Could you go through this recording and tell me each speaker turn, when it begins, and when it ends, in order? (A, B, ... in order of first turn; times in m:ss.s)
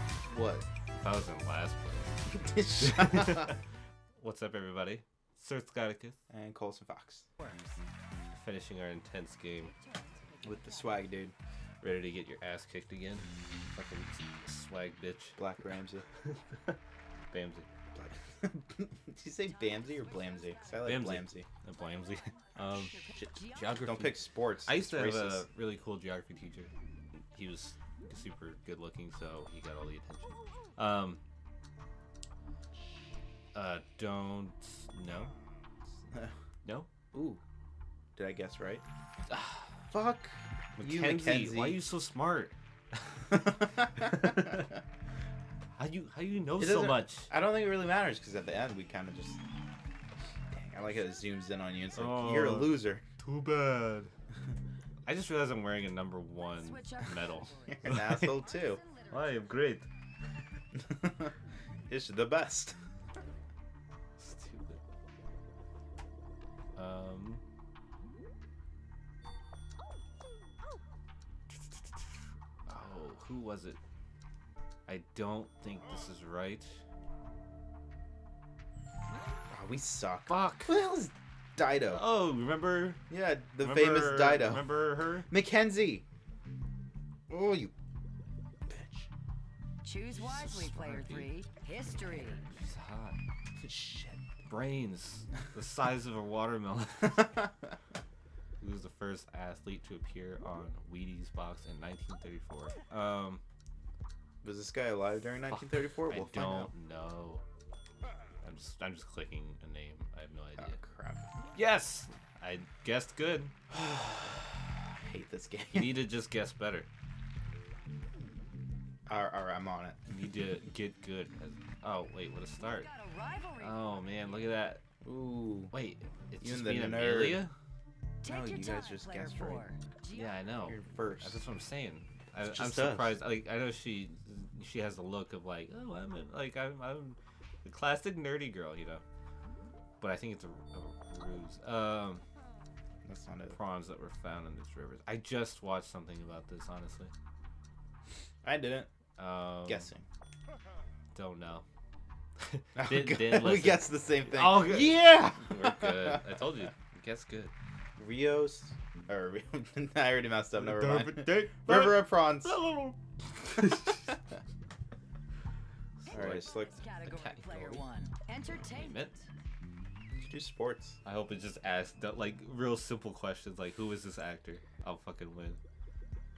0:00.3-0:00.7 A
0:01.0-0:02.2 B
0:02.3-0:03.5 A
0:02.8-0:03.6 B
0:04.2-0:06.2 B
0:06.3-0:07.3 A
0:07.4-0:07.8 C
0:08.3-0:09.7 B
0:09.7-0:11.1 C
0:10.4-0:11.3 A
0:11.8-0:15.4 B
0:15.4-0:16.0 A
0:16.2-0:16.8 B
0:17.3-0:17.7 B
0:17.9-0:21.5 A
0:19.5-0:21.0 C
0:20.8-0:26.7 B
0:22.6-0:23.8 C
0:23.2-0:25.5 A
0:27.3-0:31.2 B
0:33.5-0:35.3 B
0:36.1-0:36.3 A
0:37.1-0:37.4 A
0:38.2-0:38.8 A
0:39.3-0:39.8 B
0:39.9-0:41.8 A
0:40.8-0:44.7 B
0:43.3-0:44.6 A
0:45.8-0:47.3 B
0:46.6-0:49.4 A
0:50.5-0:53.0 A
0:51.9-0:54.1 B
0:55.0-0:58.3 B
0:56.6-0:59.5 C
0:57.7-0:58.8 A
0:59.1-0:59.9 B
1:00.7-1:01.3 A
1:01.9-1:02.8 A
1:04.2-1:04.8 B
1:06.7-1:07.4 B
1:11.5-1:13.8 B
1:14.9-1:16.8 B
1:19.5-1:22.0 A
1:20.3-1:20.7 B
1:21.9-1:23.0 B
1:23.1-1:24.7 A
1:23.6-1:25.3 B
1:25.3-1:26.0 A
1:27.3-1:27.7 A
1:28.7-1:29.1 A
1:29.8-1:32.4 C
1:30.1-1:31.3 B
1:32.0-1:33.2 B
1:33.6-1:34.2 A
1:34.4-1:37.4 B
1:37.2-1:37.4 A
1:38.6-1:43.4 B
1:44.4-1:46.7 A
1:45.5-1:47.4 B
1:48.4-1:50.8 B
1:50.6-1:51.2 A
1:51.5-1:53.7 B
1:53.8-1:54.4 A
1:54.9-1:56.0 A
1:55.7-1:56.9 B
1:59.1-2:00.0 A
2:00.1-2:02.9 B
2:02.6-2:04.4 C
2:03.6-2:04.8 B
2:05.0-2:05.7 A
2:05.7-2:07.5 B
2:06.4-2:07.4 A
2:08.2-2:10.3 C
2:08.2-2:09.6 A
2:10.1-2:19.0 B
2:10.6-2:11.4 A
2:12.4-2:13.2 A
2:20.0-2:22.2 B
2:23.0-2:23.6 A
2:23.5-2:27.1 B
2:28.4-2:28.9 A
2:29.2-2:29.9 B
2:29.6-2:30.1 A
2:31.1-2:31.6 B
2:32.4-2:37.5 B
2:32.8-2:36.4 A
2:38.0-2:42.6 A
2:40.5-2:44.1 B
2:46.0-2:47.8 B
2:46.1-2:46.7 A
2:46.2-2:49.1 C
2:48.5-2:49.2 B
2:50.1-2:51.0 A
2:51.0-2:55.6 B